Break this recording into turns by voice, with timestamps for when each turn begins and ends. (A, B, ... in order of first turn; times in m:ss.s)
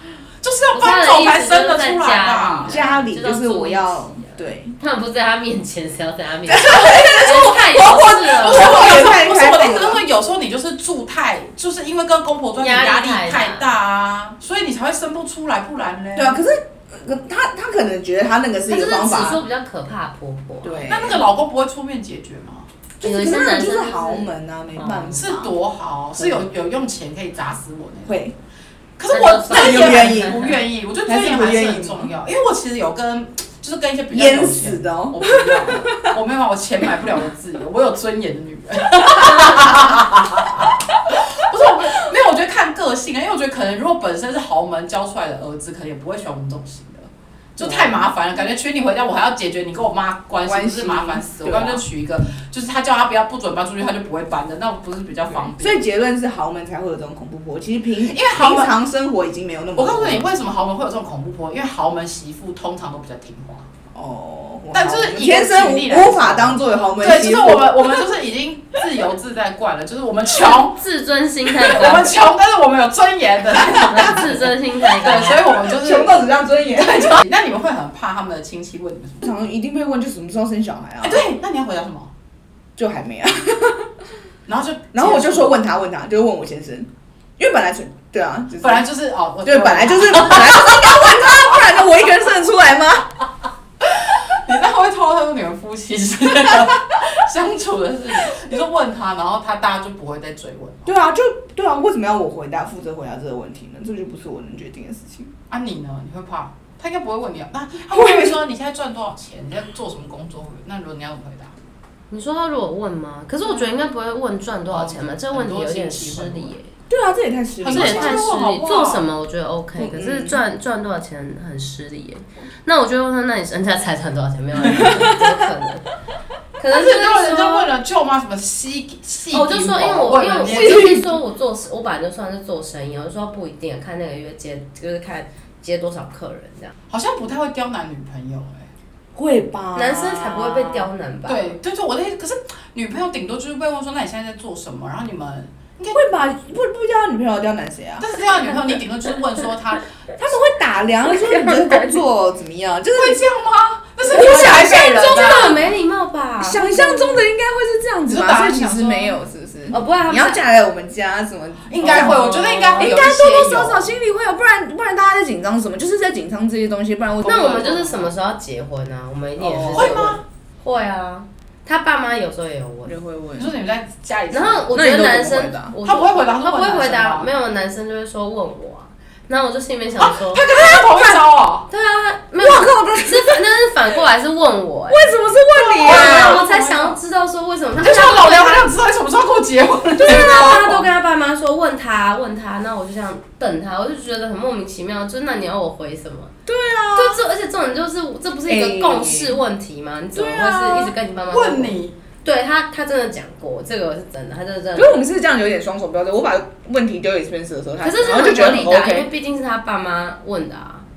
0:00.4-0:02.8 A
0:00.7-0:08.9 B
0:02.7-0:04.8 C
0:06.5-0:10.0 C
0:08.0-0:16.4 A
0:12.6-0:13.7 B
0:16.2-0:19.4 C
0:18.7-0:20.8 B
0:20.6-0:21.2 C
0:20.9-0:22.7 A
0:23.0-0:25.5 C
0:23.0-0:25.2 B
0:25.1-0:28.2 A
0:26.2-0:26.4 C
0:28.1-0:28.4 C
0:29.0-0:55.8 A
0:29.1-0:30.6 B
0:29.5-0:30.5 C
0:31.0-0:32.1 C
0:34.1-0:36.1 C
0:47.6-0:47.9 C
0:50.4-0:51.8 C
0:55.6-1:00.3 C
0:58.1-0:58.7 A
0:59.8-1:03.7 A
1:03.9-1:08.1 C
1:04.7-1:10.8 A
1:10.7-1:12.2 B
1:11.5-1:19.3 A
1:13.8-1:15.5 B
1:15.6-1:17.2 C
1:19.2-1:21.3 C
1:21.0-1:22.1 A
1:22.8-1:24.0 C
1:24.5-1:25.6 A
1:24.9-1:28.9 C
1:28.6-1:31.8 A
1:29.4-1:33.1 C
1:33.8-1:40.9 A
1:36.4-1:36.7 C
1:40.8-1:45.3 C
1:45.5-1:51.5 A
1:47.9-1:48.4 C
1:52.1-1:56.7 B
1:54.7-1:56.6 A
1:56.9-1:58.3 C
1:57.6-1:59.1 A
1:57.7-2:05.9 B
1:59.8-2:00.4 C
2:06.6-2:07.7 B
2:06.7-2:11.1 A
2:09.3-2:16.7 B
2:10.5-2:10.9 C
2:16.9-2:18.7 A
2:19.1-2:20.9 C
2:19.8-2:21.6 B
2:21.3-2:26.0 A
2:25.9-2:28.1 C
2:28.0-2:29.9 A
2:30.2-2:33.2 C
2:31.1-2:32.0 B
2:32.9-2:35.7 A
2:34.0-2:35.2 C
2:34.1-2:37.3 B
2:36.4-2:42.2 C
2:38.1-2:39.2 A
2:39.7-2:40.4 B
2:41.7-2:43.9 A
2:41.8-2:42.9 B
2:42.8-2:47.9 C
2:47.2-2:53.0 B
2:47.5-2:48.1 A
2:49.4-2:50.1 C
2:49.7-2:50.2 A
2:52.8-2:53.5 C
2:53.4-2:54.8 A
2:54.3-3:00.5 B
2:54.7-2:55.8 C
2:55.8-2:57.3 A
3:00.0-3:01.7 A
3:00.6-3:01.2 C
3:01.7-3:05.2 B
3:02.4-3:03.5 C
3:04.9-3:06.4 C
3:05.6-3:07.0 A
3:05.8-3:08.7 B
3:07.8-3:10.9 A
3:10.0-3:10.8 C
3:10.0-3:16.3 B
3:16.5-3:17.2 C
3:16.9-3:25.0 B
3:18.5-3:19.4 C
3:20.2-3:20.8 C
3:20.8-3:22.0 A
3:24.8-3:29.1 C
3:27.8-3:30.9 B